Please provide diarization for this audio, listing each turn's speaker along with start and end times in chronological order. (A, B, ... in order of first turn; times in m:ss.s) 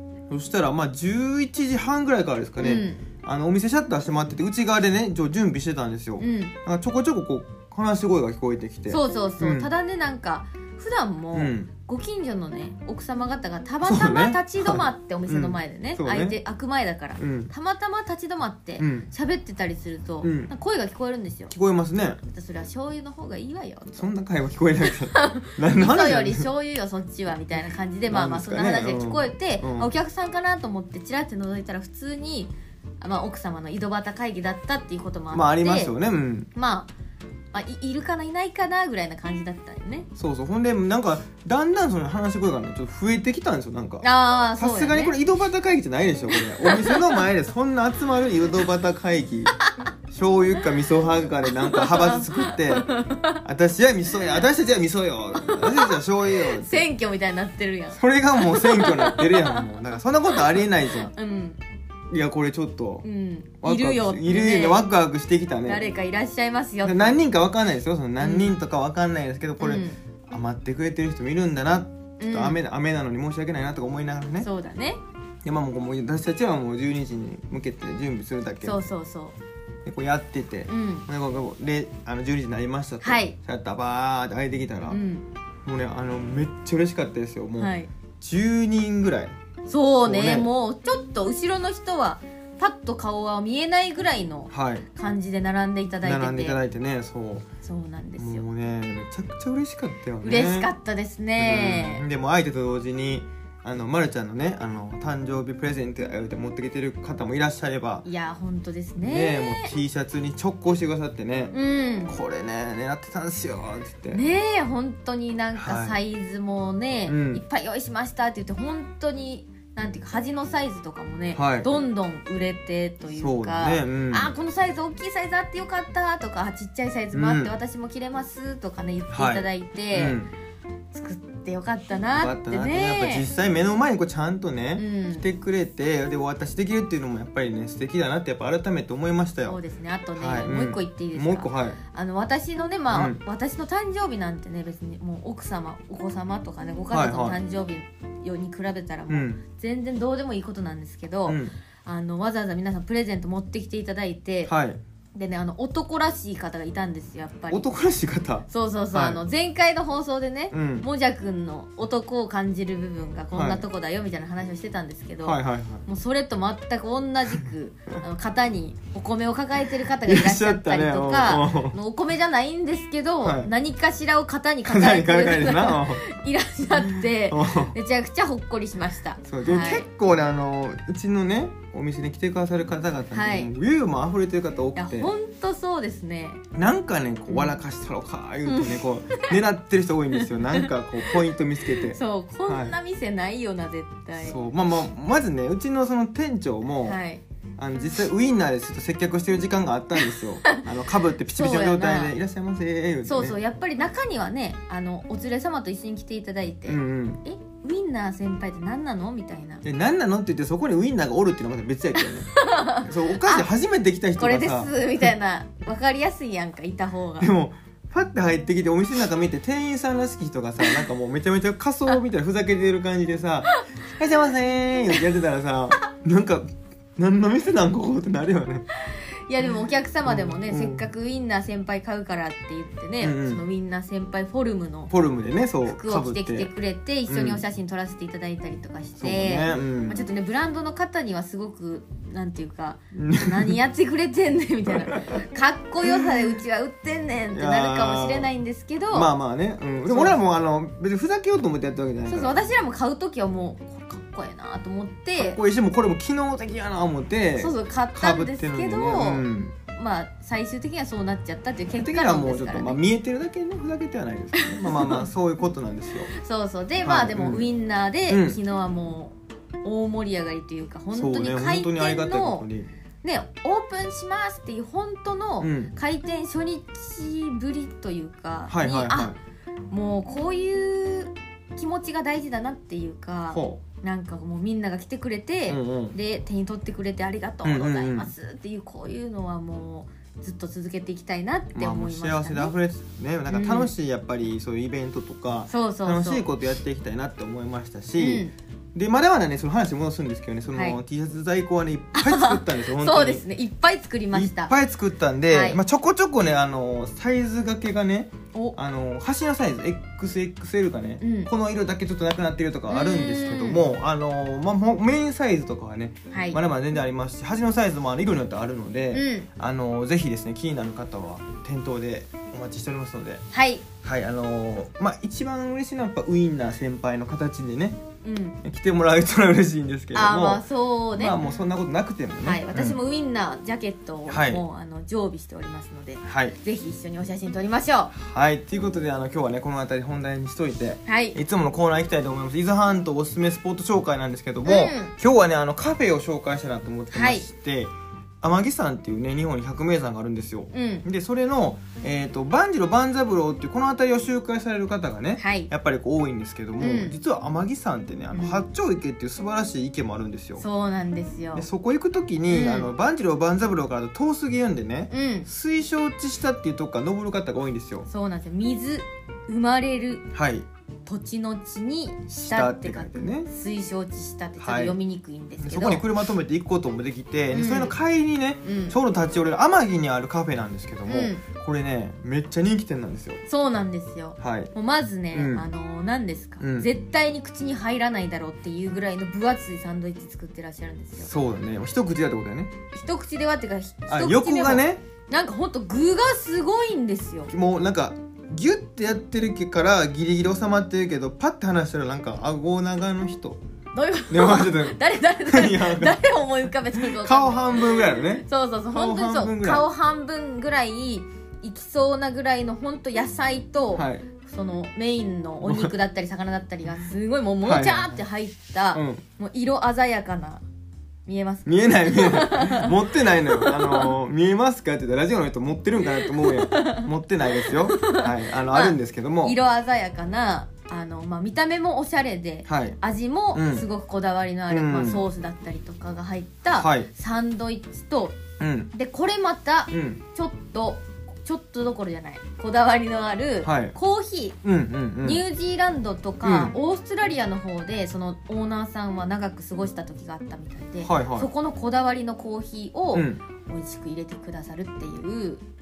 0:00.3-0:09.7 A
0:02.6-0:03.0 B
0:06.2-0:06.5 B
0:08.9-0:21.5 B
0:11.3-0:11.7 A
0:13.8-0:16.4 A
0:17.2-0:17.5 A
0:18.8-0:19.1 A
0:20.2-0:20.5 A
0:21.5-0:22.2 A
0:22.2-0:24.1 B
0:23.9-0:26.5 A
0:24.8-0:35.9 B
0:28.1-0:29.9 A
0:35.3-0:36.5 A
0:36.5-0:36.9 B
0:37.5-0:40.1 B
0:40.2-0:49.5 A
0:44.0-0:45.1 B
0:46.3-0:47.2 B
0:50.1-0:52.9 A
0:51.5-0:53.4 B
0:53.4-0:56.9 A
0:55.4-0:59.7 B
0:57.9-1:01.1 A
1:00.3-1:01.6 B
1:02.1-1:03.0 A
1:03.0-1:04.8 B
1:03.6-1:05.8 A
1:05.6-1:07.2 B
1:06.8-1:14.5 A
1:08.2-1:08.5 B
1:09.6-1:10.0 B
1:12.2-1:12.6 B
1:14.4-1:15.0 B
1:15.4-1:18.8 A
1:18.6-1:19.4 B
1:19.8-1:25.0 A
1:20.7-1:21.0 B
1:23.0-1:23.3 B
1:24.9-1:25.2 B
1:25.6-1:29.3 A
1:27.6-1:27.9 B
1:29.6-1:36.6 B
1:30.0-1:30.5 A
1:34.5-1:34.8 A
1:36.0-1:37.4 A
1:37.6-1:38.4 B
1:38.2-1:40.7 A
1:40.2-1:42.0 B
1:41.4-1:48.1 A
1:48.0-1:49.7 B
1:49.0-1:51.5 A
1:51.5-1:52.1 B
1:52.0-1:54.2 A
1:54.1-2:10.2 B
1:55.5-1:56.0 A
1:57.0-1:57.4 A
2:01.3-2:01.7 A
2:03.1-2:04.3 A
2:07.1-2:07.5 A
2:09.1-2:10.3 A
2:10.9-2:13.3 B
2:12.1-2:19.6 A
2:14.8-2:15.2 B
2:19.4-2:34.5 B
2:20.2-2:21.8 A
2:22.9-2:23.2 A
2:26.9-2:27.4 A
2:29.1-2:29.4 A
2:31.2-2:31.5 A
2:34.5-2:34.8 A
2:35.1-2:37.7 B
2:37.5-2:39.2 A
2:38.5-2:59.8 B
2:40.5-2:40.9 A
2:43.3-2:43.6 A
2:45.2-2:45.8 A
2:50.0-2:51.8 A
2:53.2-2:53.5 A
2:54.6-2:56.0 A
2:56.9-2:57.7 A
2:59.3-3:05.1 A
3:03.1-3:03.5 B
3:04.8-3:06.4 B
3:06.5-3:12.8 A
3:07.3-3:07.6 B
3:08.4-3:09.3 B
3:10.2-3:14.4 B
3:14.2-3:17.0 A
3:16.8-3:17.2 B
3:17.6-3:23.4 A
3:21.3-3:22.2 B
3:23.0-3:29.6 B
3:26.6-3:27.2 A
3:29.6-3:35.1 A
3:32.3-3:33.5 B
3:34.2-3:37.3 B
3:37.2-3:48.6 A
3:43.5-3:43.9 B
3:48.9-3:54.9 B
3:50.0-3:50.8 A
3:53.0-3:53.4 A
3:54.9-3:56.5 A
3:55.6-4:09.1 B
3:57.1-3:57.4 A
3:59.0-4:00.0 A
4:02.9-4:03.6 A
4:04.7-4:05.1 A
4:05.8-4:06.4 A
4:07.3-4:08.3 A
4:08.9-4:12.4 A
4:09.8-4:10.2 B
4:12.1-4:15.4 B
4:15.2-4:19.6 A
4:17.4-4:22.8 B
4:21.7-4:26.1 A
4:24.4-4:25.0 B
4:26.1-4:32.5 B
4:26.8-4:27.5 A
4:28.1-4:28.4 A
4:30.9-4:32.7 A
4:33.0-4:39.1 B
4:35.4-4:35.7 A
4:38.5-4:39.2 A
4:39.7-4:52.5 B
4:43.3-4:43.6 A
4:45.5-4:46.0 A
4:47.4-4:48.1 A
4:51.5-5:03.2 A
4:53.3-4:53.7 B
4:55.5-4:56.2 B
4:58.0-4:58.3 B
5:00.5-5:00.8 B
5:02.0-5:04.5 B
5:04.1-5:23.2 A
5:05.3-5:05.6 B
5:11.0-5:11.3 B
5:12.7-5:13.6 B
5:16.1-5:16.4 B
5:18.9-5:19.3 B
5:23.3-5:23.6 B
5:23.8-5:27.8 A
5:28.0-5:28.4 B
5:28.4-5:32.8 A
5:29.9-5:31.3 B
5:32.2-5:37.9 B
5:34.1-5:34.4 A
5:36.0-5:36.4 A
5:37.9-6:00.4 A
5:40.9-5:41.2 B
5:44.4-5:44.9 B
5:46.9-5:47.2 B
5:50.5-5:50.8 B
5:55.2-5:55.5 B
5:56.6-5:57.0 B
5:58.1-5:58.4 B
6:00.4-6:01.5 B
6:01.3-6:07.9 A
6:02.3-6:02.7 B
6:04.9-6:05.3 B
6:07.9-6:10.1 B
6:10.1-6:10.4 A
6:10.8-6:15.9 B
6:12.1-6:13.3 A
6:14.4-6:14.8 A
6:15.4-6:23.2 A
6:17.3-6:17.7 B
6:18.4-6:18.8 B
6:20.9-6:21.2 B
6:23.3-6:31.1 B
6:24.2-6:24.5 A
6:25.1-6:25.4 A
6:26.4-6:26.7 A
6:31.0-6:32.5 A
6:32.7-6:37.3 B
6:33.9-6:34.8 A
6:37.3-6:43.4 A
6:43.7-7:00.4 B
6:44.1-6:46.0 A
6:46.7-6:49.7 A
6:53.7-6:54.0 A
6:55.4-6:55.7 A
6:57.4-6:58.0 A
6:58.7-6:59.0 A
7:01.0-7:03.9 B
7:01.4-7:09.4 A
7:05.8-7:18.2 B
7:12.5-7:12.8 A
7:13.3-7:13.7 A
7:14.5-7:15.0 A
7:16.5-7:16.9 A
7:18.4-7:18.7 A
7:18.7-7:24.4 B
7:19.7-7:20.0 A
7:23.4-7:23.7 A
7:24.4-7:25.2 A
7:25.0-7:35.4 B
7:26.2-7:26.5 A
7:30.8-7:31.3 A
7:32.9-7:33.2 A